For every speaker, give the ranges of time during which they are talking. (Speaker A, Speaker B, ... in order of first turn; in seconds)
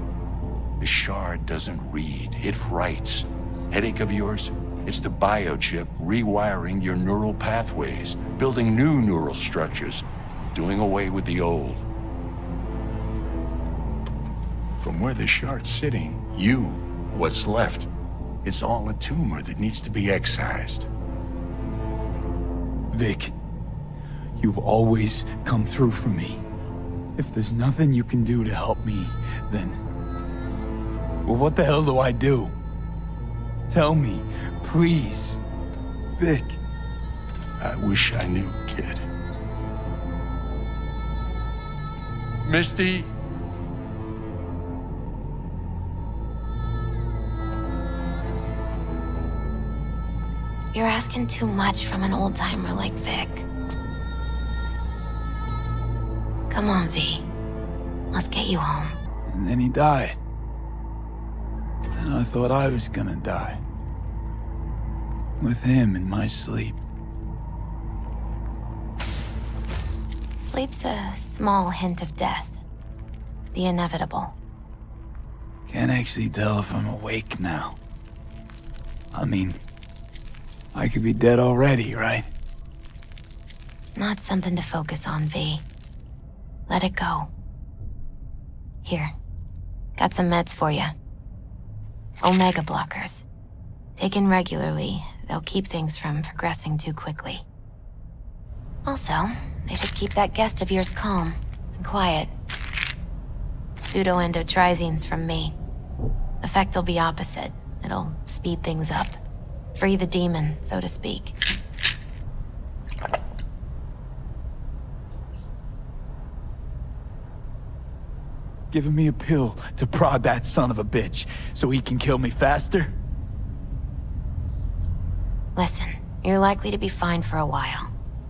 Speaker A: 0.8-11.8, 14.8-17.9, 18.4-20.9, 37.6-39.0, 42.4-43.1
Speaker B: 22.9-23.3, 24.4-26.4, 27.2-29.8, 31.2-32.5, 33.7-35.4, 36.1-36.6, 59.3-60.2, 62.0-63.6, 65.4-66.8, 75.7-77.8, 79.1-79.6, 80.7-82.3, 118.7-123.0
Speaker C: 50.7-53.5, 56.5-57.3, 58.1-59.0, 70.3-72.6, 73.5-74.3, 84.0-85.6, 86.7-87.3, 88.8-89.1, 90.0-90.9, 92.2-93.2, 94.0-97.4, 98.8-102.3, 103.8-105.6, 106.4-109.2, 109.7-111.3, 125.5-127.9